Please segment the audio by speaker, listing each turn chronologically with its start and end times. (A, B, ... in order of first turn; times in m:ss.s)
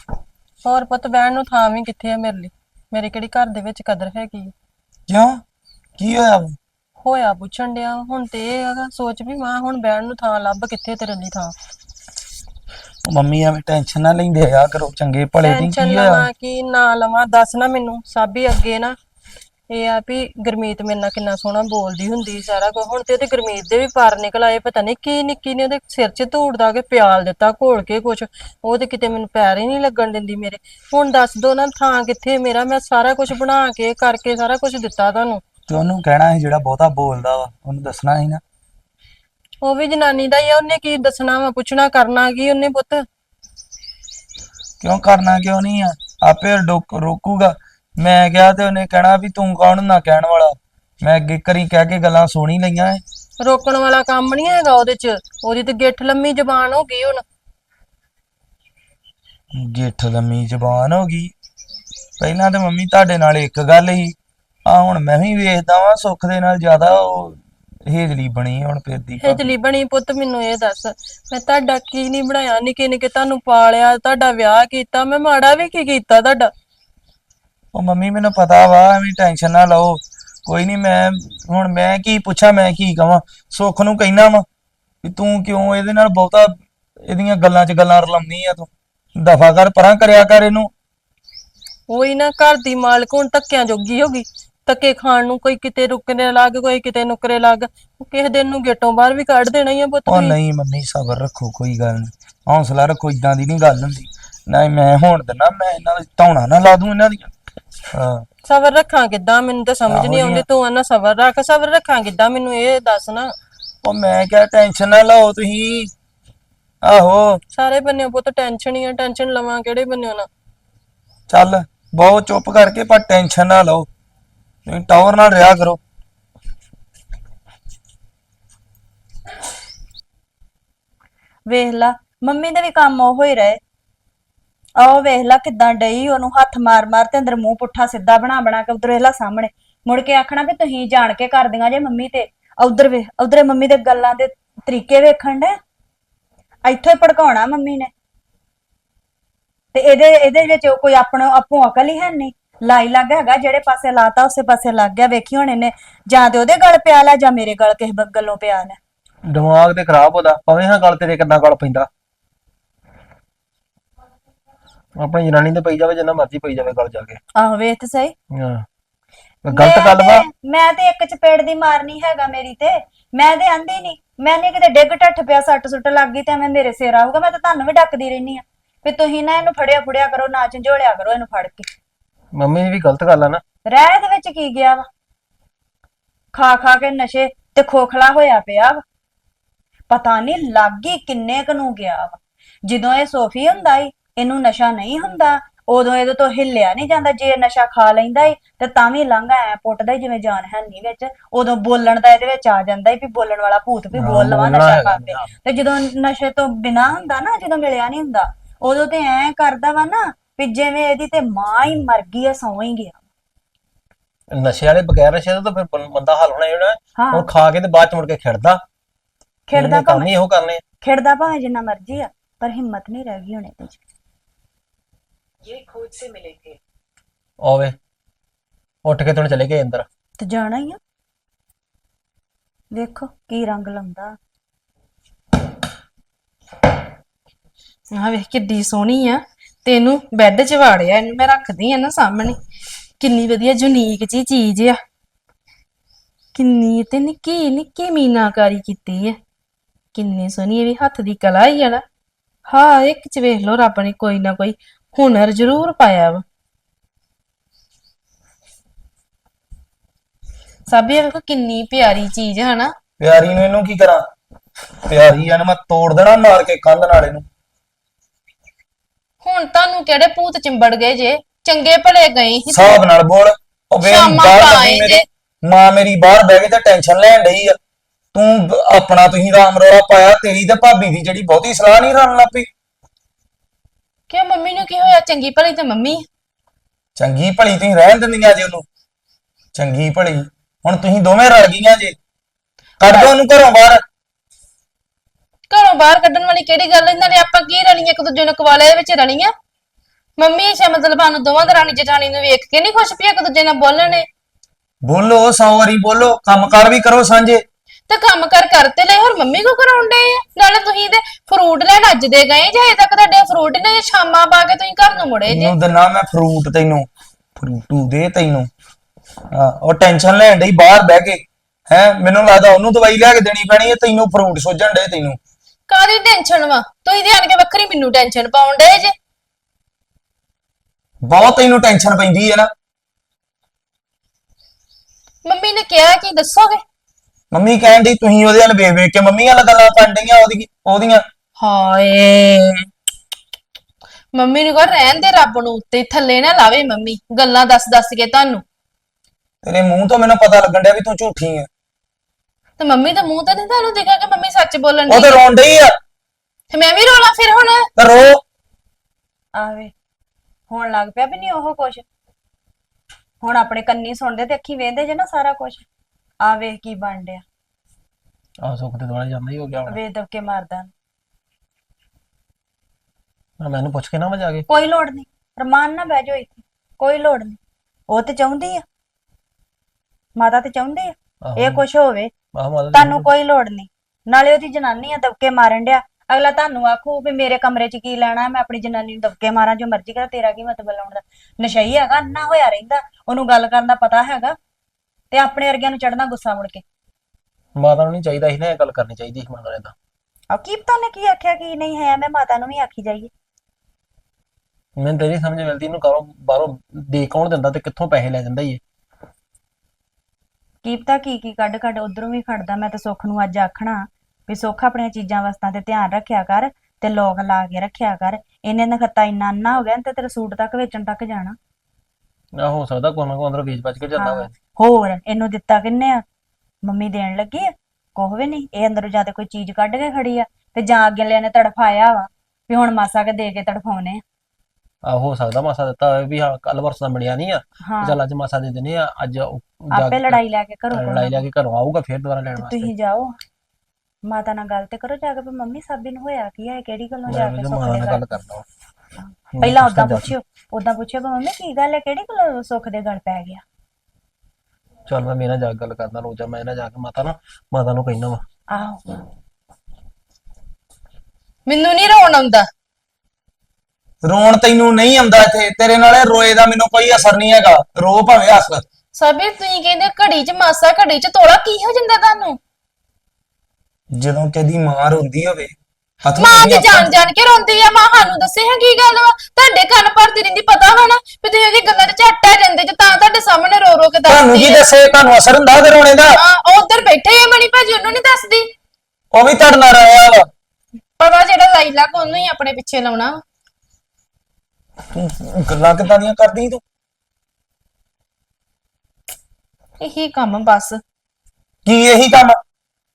0:00.6-0:04.5 A
0:05.1-0:05.4 B
0:06.0-0:06.6 B
0:07.0-0:11.5 A
0:13.0-0:16.3 B
0:15.4-0:18.9 A
0:19.7-0:35.4 A
0:35.7-0:38.4 B
0:39.6-0:43.0 A
0:44.8-0:53.0 B
0:53.4-0:57.2 A
0:59.5-1:01.3 B
1:02.2-1:04.1 B
1:04.7-1:09.5 B
1:09.2-1:16.5 A
1:17.7-1:24.4 B
1:25.0-1:30.7 B
1:31.9-1:40.4 A
1:40.1-1:47.3 B
1:48.4-1:53.3 A
1:49.9-1:50.4 B
1:53.8-1:55.9 B
1:56.8-1:57.4 B
1:57.5-2:00.3 A
2:01.3-2:03.9 B
2:04.6-2:05.8 B
2:11.5-2:13.6 C
2:14.8-2:25.5 C
2:26.6-2:27.9 C
2:29.7-2:38.8 C
2:39.3-2:41.9 D
2:45.0-2:47.2 D
2:47.4-2:48.1 C
2:48.4-2:48.6 D
2:49.4-2:50.2 D
2:49.5-3:01.7 C
3:02.3-3:03.4 D
3:03.6-3:04.8 C
3:06.3-3:08.8 C
3:09.9-3:33.0 C
3:23.9-3:25.3 D
3:34.3-3:38.6 D
3:37.0-3:37.3 C
3:39.5-3:40.1 C
3:39.5-3:40.6 D
3:40.8-3:43.8 C
3:47.4-3:47.7 D
3:48.8-3:49.8 D
3:50.2-3:50.8 C
3:52.7-3:54.1 C
3:57.9-4:02.4 E
4:03.0-4:04.8 E
4:06.3-4:09.2 E
4:09.9-4:11.8 E
4:12.5-4:16.2 E
4:20.7-4:22.7 E
4:23.0-4:24.0 B
4:24.8-4:27.2 B
4:29.2-4:32.8 E
4:32.5-4:37.6 B
4:33.8-4:35.0 E
4:38.1-4:42.5 B
4:44.1-4:46.0 E
4:47.0-4:48.6 B
4:49.5-4:52.0 B
4:52.8-4:53.8 B
4:55.5-4:59.3 E
5:00.2-5:04.1 E
5:04.8-5:07.4 B
5:07.9-5:15.5 E
5:15.2-5:18.5 B
5:19.3-5:25.2 B
5:25.7-5:28.9 E
5:31.0-5:32.5 B
5:35.2-5:36.6 E
5:37.3-5:41.0 B
5:41.4-5:42.7 E
5:44.1-5:48.4 E
5:49.4-5:51.5 B
5:52.6-5:55.1 E
5:54.9-5:55.7 B
5:56.5-5:57.7 E
5:57.8-5:58.2 B
5:59.3-5:59.7 C
6:00.5-6:01.8 C
6:03.2-6:05.6 C
6:06.2-6:07.2 C
6:08.4-6:09.8 D
6:09.7-6:10.7 C
6:13.4-6:14.4 D
6:14.5-6:17.4 C
6:17.9-6:18.6 C
6:20.2-6:22.1 C
6:21.2-6:21.6 D
6:22.3-6:23.1 D
6:22.7-6:34.3 C
6:35.1-6:36.6 C
6:37.6-6:39.7 D
6:40.3-6:43.1 C
6:44.8-6:48.6 D
6:50.6-7:01.4 C
7:02.4-7:04.3 D
7:04.0-7:06.0 C
7:06.6-7:14.0 C
7:14.9-7:20.2 D
7:17.6-7:18.0 C
7:19.7-7:21.2 C
7:20.7-7:22.7 D
7:22.4-7:23.1 C
7:24.1-7:28.1 C
7:27.1-7:28.4 D
7:29.0-7:33.4 C
7:29.3-7:30.1 D
7:34.9-7:38.2 D
7:38.5-7:39.0 C
7:41.4-7:42.5 E
7:44.0-7:48.6 B
7:48.9-7:52.4 E
7:53.9-7:55.5 B
7:56.0-7:56.9 B
7:56.1-8:04.6 E
8:04.0-8:06.2 B
8:06.1-8:08.5 E
8:09.1-8:10.2 B
8:11.0-8:13.2 E
8:14.9-8:16.6 B
8:19.8-8:20.8 E
8:21.6-8:22.4 B